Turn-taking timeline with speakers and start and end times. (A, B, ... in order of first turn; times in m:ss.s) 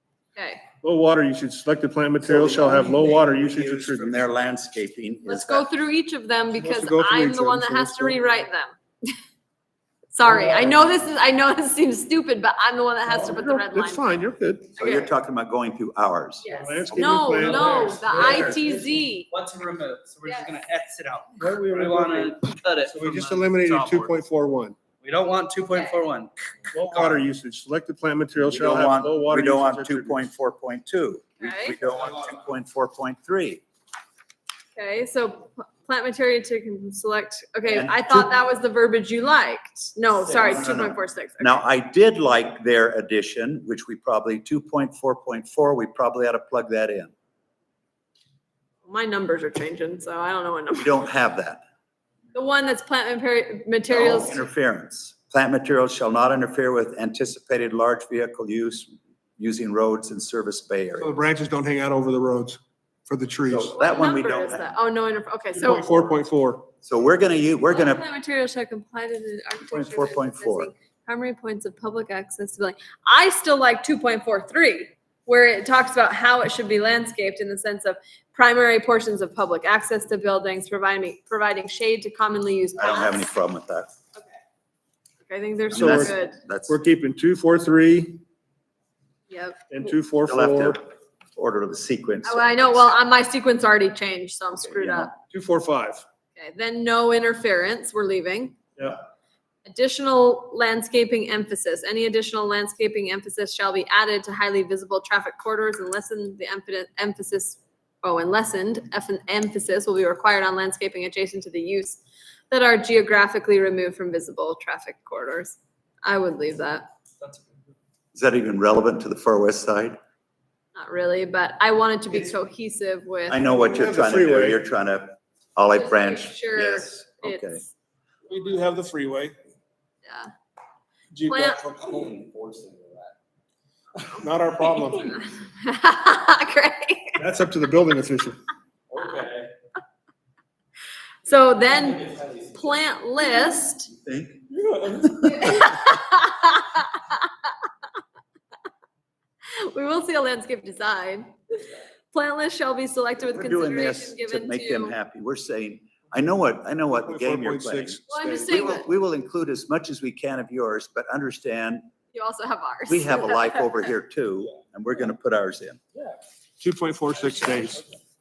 0:00.4-0:00.6 A
0:00.8-0:04.2 B
0:02.2-0:05.7 C
0:05.3-0:09.1 A
0:06.6-0:08.2 B
0:10.1-0:14.1 A
0:13.1-0:14.7 B
0:14.8-0:15.1 A
0:14.8-0:16.5 C
0:16.4-0:19.3 A
0:16.5-0:18.5 B
0:17.4-0:24.1 D
0:21.4-0:24.8 B
0:25.0-0:27.2 D
0:26.7-0:30.2 B
0:28.4-0:33.6 C
0:31.4-0:31.8 A
0:34.8-0:41.6 A
0:37.7-0:38.3 C
0:40.2-0:47.1 C
0:48.9-0:50.9 A
0:50.8-0:51.6 C
0:52.3-0:54.4 A
0:53.9-1:01.2 C
1:01.0-1:03.8 B
1:03.5-1:04.7 C
1:03.8-1:05.9 A
1:05.6-1:06.7 B
1:06.8-1:08.0 C
1:07.7-1:23.3 A
1:09.6-1:10.7 C
1:22.8-1:23.9 C
1:25.3-1:26.4 A
1:25.7-1:26.8 C
1:25.8-1:26.2 B
1:26.7-1:28.2 B
1:29.3-1:29.7 A
1:29.7-1:30.8 B
1:30.3-1:32.8 C
1:32.2-1:35.1 A
1:34.7-1:35.1 C
1:35.3-1:36.0 B
1:36.4-1:38.6 A
1:39.7-1:56.9 A
1:58.1-2:00.0 C
2:00.8-2:03.4 A
2:03.3-2:07.6 C
2:03.5-2:04.6 B
2:05.7-2:07.7 A
2:08.3-2:09.3 B
2:11.1-2:12.0 B
2:11.2-2:11.6 A
2:11.7-2:13.1 D
2:14.0-2:15.2 B
2:14.8-2:17.2 A
2:17.2-2:18.4 B
2:18.9-2:19.5 D
2:21.2-2:23.9 A
2:24.0-2:24.4 C
2:25.2-2:27.3 A
2:29.5-2:35.0 A
2:33.3-2:41.9 C
2:37.0-2:38.7 B
2:38.1-2:38.9 A
2:42.1-2:43.9 A
2:42.9-2:45.8 C
2:46.6-2:47.8 B